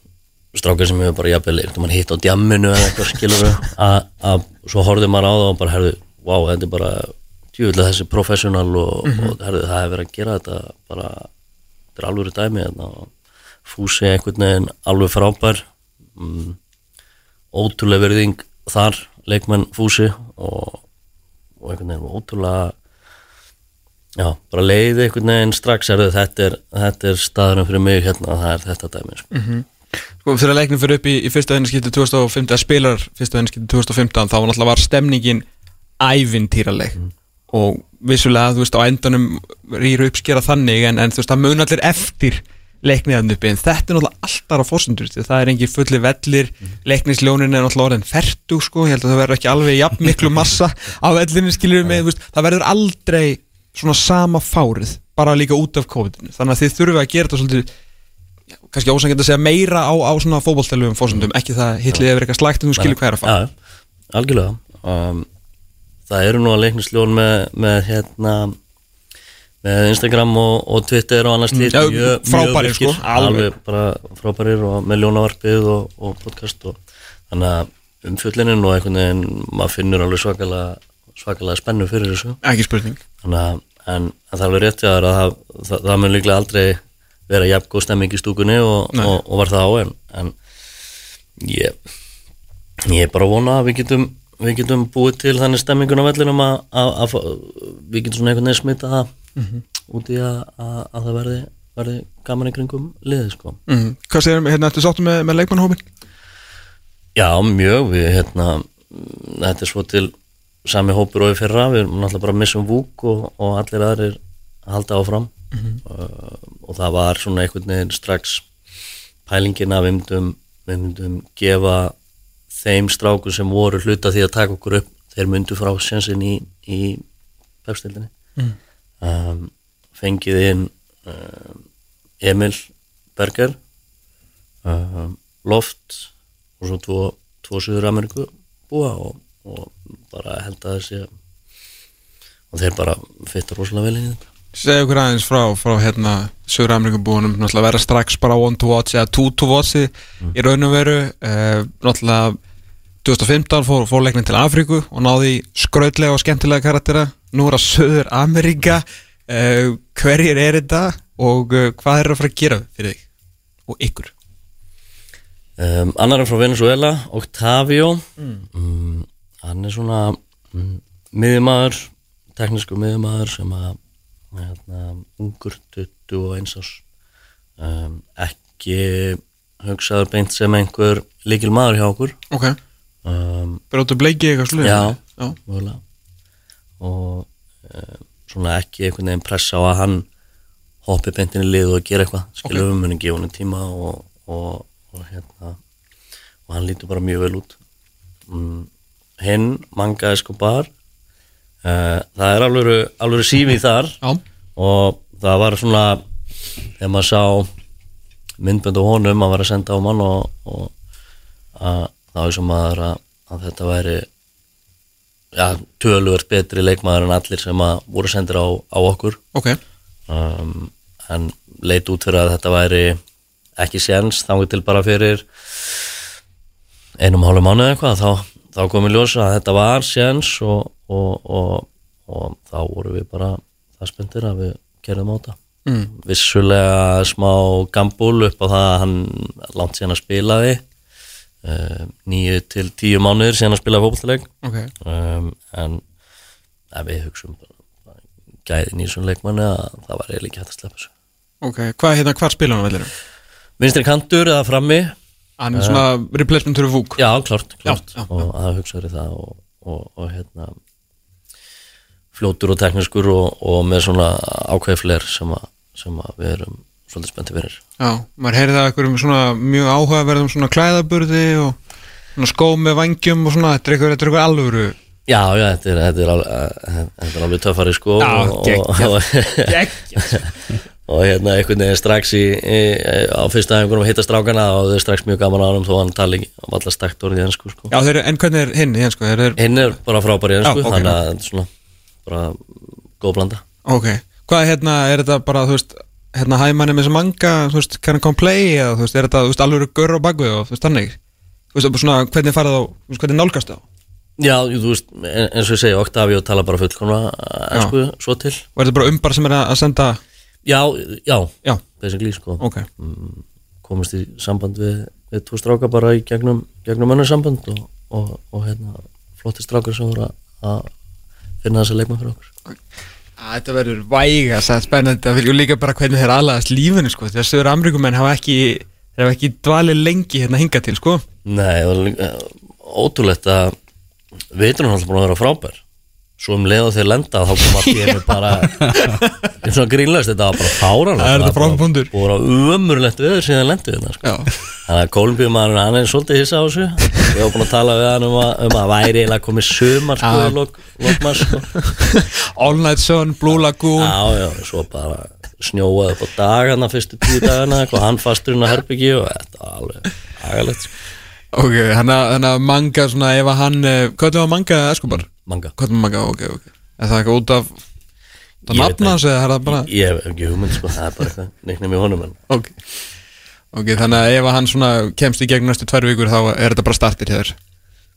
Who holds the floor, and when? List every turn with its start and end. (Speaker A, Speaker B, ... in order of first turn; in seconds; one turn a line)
Speaker A: 0.5-11.3
Speaker B: 9.1-9.3
Speaker A: 12.0-13.1
Speaker A: 13.7-15.7
Speaker A: 16.2-16.6
Speaker A: 17.5-20.8
Speaker A: 21.6-22.8
Speaker A: 24.2-29.3
Speaker B: 29.3-29.7
Speaker B: 30.2-35.4
Speaker B: 36.0-37.0
Speaker B: 37.5-57.7
Speaker B: 58.7-63.3
Speaker A: 62.8-63.5
Speaker A: 64.1-65.3
Speaker A: 66.1-68.6
Speaker A: 69.6-76.8
Speaker B: 71.5-73.5
Speaker A: 77.3-82.4
Speaker B: 82.4-83.0
Speaker A: 83.2-90.3
Speaker A: 91.4-91.8
Speaker A: 92.9-99.1
Speaker B: 99.4-99.6
Speaker A: 99.9-103.6
Speaker B: 103.7-105.8
Speaker A: 107.2-110.1
Speaker A: 110.7-115.3
Speaker B: 115.5-115.8
Speaker A: 115.9-118.5
Speaker A: 119.3-122.0
Speaker A: 122.5-127.0
Speaker A: 127.7-128.1
Speaker A: 129.0-131.6
Speaker A: 132.2-133.6
Speaker A: 134.7-136.1
Speaker A: 136.6-141.1
Speaker A: 142.5-144.2
Speaker B: 144.6-152.4
Speaker B: 153.0-163.0
Speaker B: 163.7-164.1
Speaker A: 165.6-173.8
Speaker B: 168.2-168.4
Speaker A: 174.3-176.8
Speaker A: 177.6-182.2
Speaker B: 182.3-182.6
Speaker A: 183.1-183.6
Speaker B: 183.7-185.4
Speaker A: 184.6-185.8
Speaker A: 186.8-190.1
Speaker A: 190.8-195.6
Speaker A: 196.5-197.6
Speaker A: 198.3-198.7
Speaker A: 199.2-200.7
Speaker A: 201.6-204.0
Speaker A: 204.6-206.0
Speaker A: 206.8-207.5
Speaker A: 208.4-210.7
Speaker A: 211.6-214.1
Speaker A: 215.3-219.2
Speaker A: 220.1-223.0
Speaker A: 223.6-225.8
Speaker A: 227.0-235.4
Speaker B: 235.7-235.9
Speaker A: 235.9-240.6
Speaker A: 241.4-244.3
Speaker B: 244.4-244.7
Speaker A: 244.8-245.8
Speaker A: 246.7-247.5
Speaker A: 248.5-250.9
Speaker B: 251.4-252.9
Speaker A: 253.6-254.9
Speaker B: 255.4-257.0
Speaker A: 255.5-255.8
Speaker A: 257.0-260.6
Speaker B: 257.7-258.1
Speaker A: 262.1-267.6
Speaker B: 267.8-271.6
Speaker B: 272.2-274.8
Speaker A: 275.1-279.6
Speaker B: 278.0-280.2
Speaker A: 280.9-287.7
Speaker B: 287.7-289.4
Speaker A: 289.4-291.5
Speaker B: 290.4-291.0
Speaker A: 292.1-292.5
Speaker A: 293.0-293.4
Speaker B: 293.7-301.0
Speaker B: 301.5-303.6
Speaker A: 304.2-308.4
Speaker B: 308.6-310.0
Speaker A: 310.4-320.7
Speaker B: 312.4-312.7
Speaker A: 321.4-322.3
Speaker B: 323.2-331.0
Speaker A: 331.3-333.6
Speaker A: 334.3-335.6
Speaker A: 336.2-338.8
Speaker B: 337.5-339.1
Speaker A: 339.4-344.1
Speaker B: 341.0-341.9
Speaker B: 344.0-344.3
Speaker A: 344.7-351.6
Speaker B: 350.0-354.0
Speaker A: 353.8-360.7
Speaker B: 361.3-365.1
Speaker A: 364.9-365.5
Speaker B: 365.6-367.6
Speaker B: 368.5-369.7
Speaker A: 368.5-372.2
Speaker B: 372.3-372.6
Speaker B: 373.5-377.4